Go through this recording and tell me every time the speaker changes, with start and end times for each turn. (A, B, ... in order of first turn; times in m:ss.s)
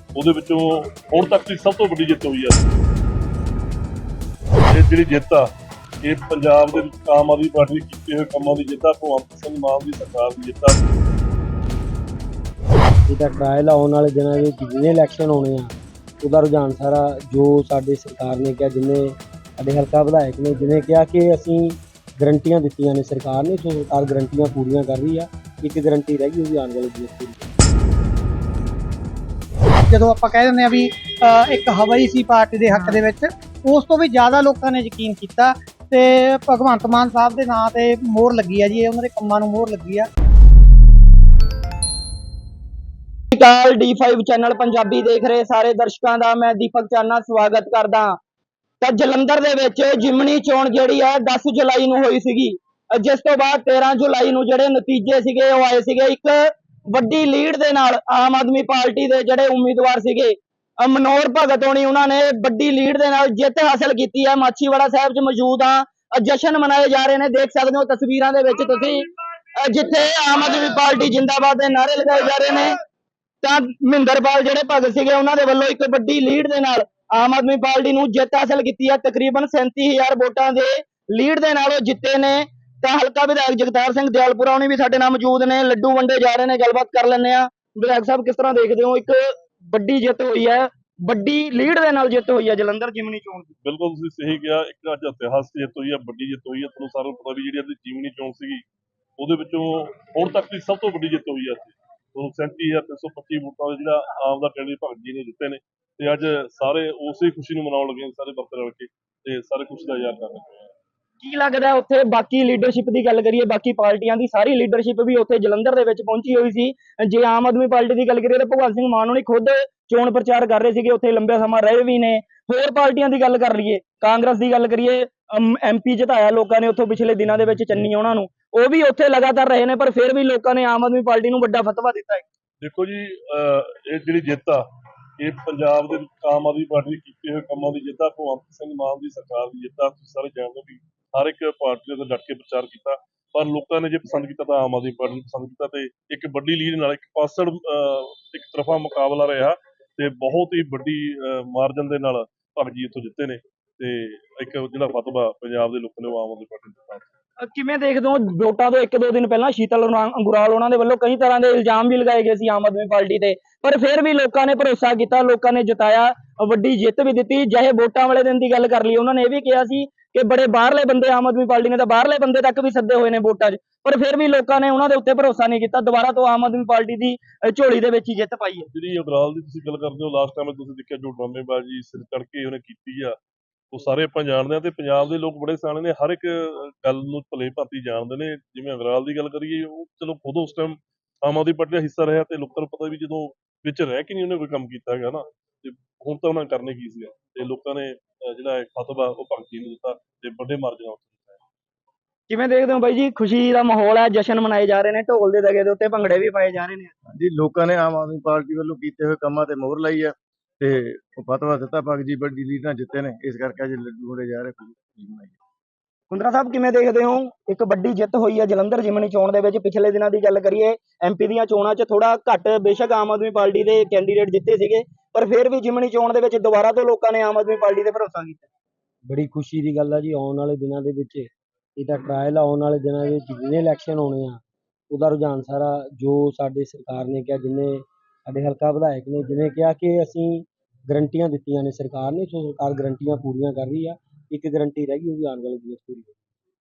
0:00.2-0:02.6 A
0:04.7-0:05.5 A
0:06.0-0:10.8 A
0:13.1-0:27.4 B
0:29.9-0:40.1 C
0:43.3-0:48.2 D
0:48.8-1:09.0 D
1:09.6-1:12.8 D
1:13.4-1:33.6 D
1:33.6-1:38.6 A
1:39.2-1:50.7 A
1:51.2-2:12.2 D
2:12.6-2:14.6 A
2:15.2-2:37.1 A
2:37.4-2:58.7 D
2:58.7-3:03.2 A
3:03.7-3:21.4 A
3:22.3-3:26.9 D
3:27.1-3:35.4 E
3:36.1-3:48.4 D
3:49.1-3:54.4 B
3:54.9-4:06.2 B